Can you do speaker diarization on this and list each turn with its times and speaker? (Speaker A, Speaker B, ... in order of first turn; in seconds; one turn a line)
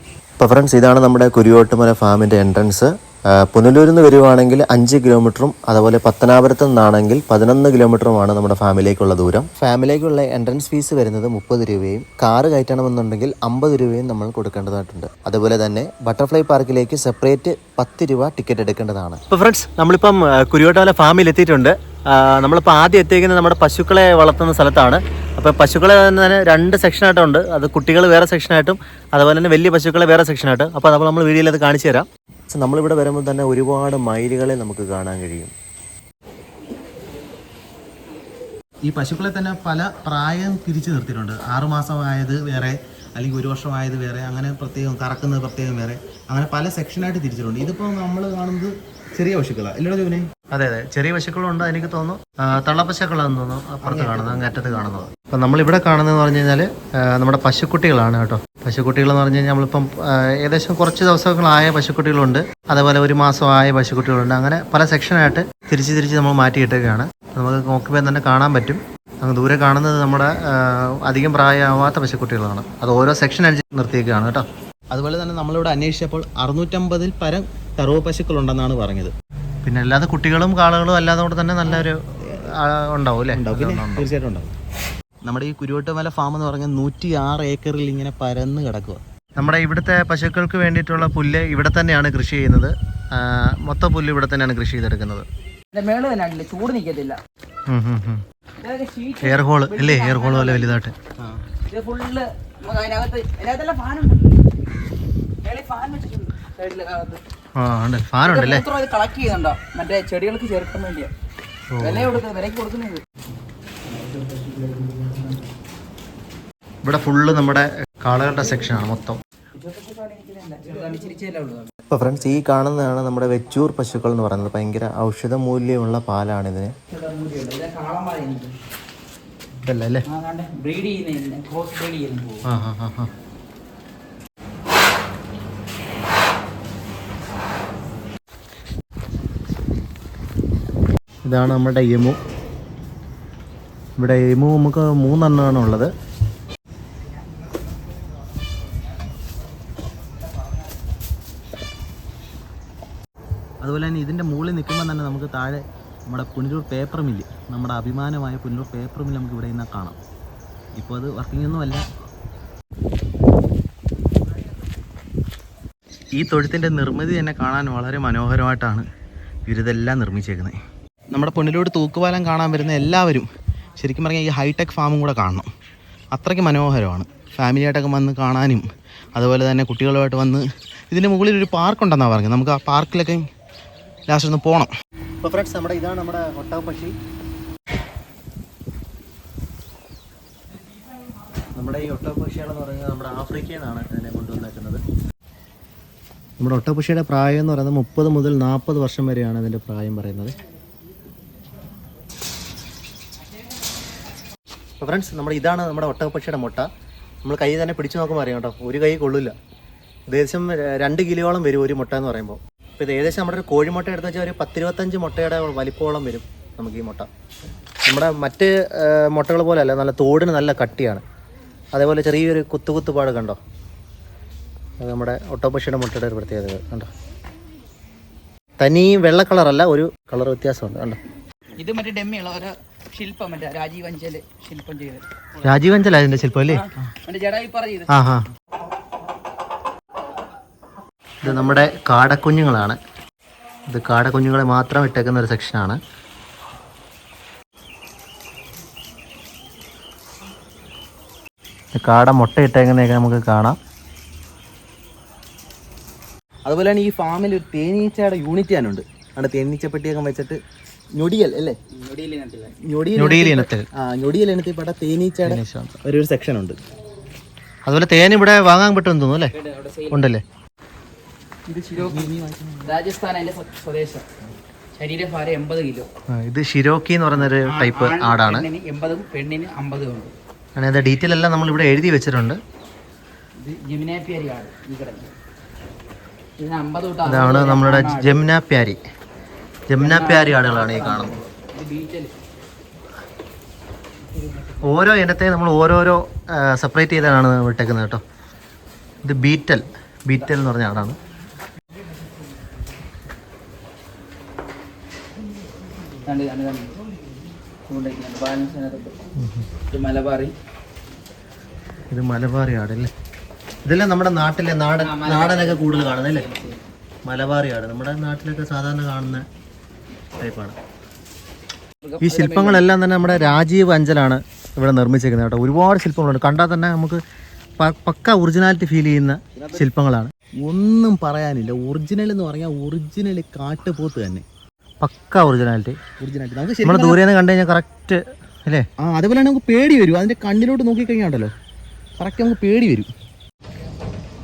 Speaker A: 0.4-19.2
Speaker B: 19.3-32.1
Speaker A: 32.5-35.5
Speaker C: 38.8-50.3
Speaker B: 50.5-74.5
Speaker C: 53.8-54.5
Speaker C: 74.9-79.1
Speaker B: 79.6-82.0
Speaker B: 82.6-84.1
Speaker C: 83.3-84.5
Speaker C: 85.2-89.0
Speaker B: 89.4-95.3
Speaker D: 95.7-97.2
Speaker B: 97.7-98.2
Speaker D: 98.6-100.8
Speaker B: 99.2-100.9
Speaker D: 101.7-104.4
Speaker D: 105.4-107.2
Speaker B: 107.6-108.6
Speaker D: 108.2-111.1
Speaker B: 111.7-112.2
Speaker D: 111.8-113.0
Speaker B: 116.8-119.2
Speaker D: 119.5-121.7
Speaker A: 121.9-126.7
Speaker D: 126.9-128.5
Speaker B: 129.6-130.0
Speaker D: 130.1-132.4
Speaker B: 132.4-133.1
Speaker B: 141.2-142.2
Speaker B: 144.0-145.9
Speaker C: 153.6-160.0
Speaker C: 160.8-161.8
Speaker C: 166.1-168.8
Speaker C: 169.5-170.6
Speaker C: 171.1-173.3
Speaker C: 173.8-175.5
Speaker C: 176.1-183.2
Speaker C: 184.1-184.7
Speaker B: 185.2-186.9
Speaker B: 191.6-194.8
Speaker B: 196.4-200.3
Speaker B: 204.8-206.7
Speaker B: 207.2-209.3
Speaker B: 210.1-217.1
Speaker B: 217.9-221.0
Speaker B: 221.7-223.4
Speaker B: 224.8-226.9
Speaker B: 228.6-231.0
Speaker D: 231.6-235.0
Speaker B: 235.4-236.6
Speaker D: 236.5-237.9
Speaker B: 237.9-238.2
Speaker B: 241.2-242.8
Speaker B: 243.7-245.8
Speaker B: 251.8-253.6
Speaker C: 256.4-260.4
Speaker C: 260.9-261.6
Speaker D: 261.7-262.5
Speaker C: 262.7-266.6
Speaker B: 263.0-263.6
Speaker B: 265.2-265.8
Speaker B: 267.6-269.3
Speaker D: 269.3-270.1
Speaker B: 269.9-270.2
Speaker C: 271.5-272.7
Speaker D: 271.7-272.1
Speaker D: 272.6-274.0
Speaker D: 274.7-275.9
Speaker B: 276.1-278.5
Speaker D: 277.2-280.1
Speaker B: 280.6-282.4
Speaker D: 283.4-285.1
Speaker D: 286.4-288.2
Speaker B: 287.1-288.8
Speaker B: 289.7-291.1
Speaker D: 289.8-292.1
Speaker B: 294.6-298.0
Speaker B: 299.0-301.0
Speaker D: 306.0-306.7
Speaker D: 307.7-309.0
Speaker B: 309.2-309.5
Speaker D: 309.7-310.3
Speaker B: 311.9-312.9
Speaker B: 313.6-316.3
Speaker D: 314.8-316.6
Speaker B: 317.0-319.2
Speaker B: 320.2-320.6
Speaker D: 321.8-322.6
Speaker B: 322.0-327.0
Speaker B: 327.6-330.1
Speaker C: 329.4-329.7
Speaker C: 330.4-334.2
Speaker B: 334.8-335.8
Speaker C: 336.0-337.0
Speaker B: 336.6-338.6
Speaker C: 338.8-341.3
Speaker C: 342.0-342.9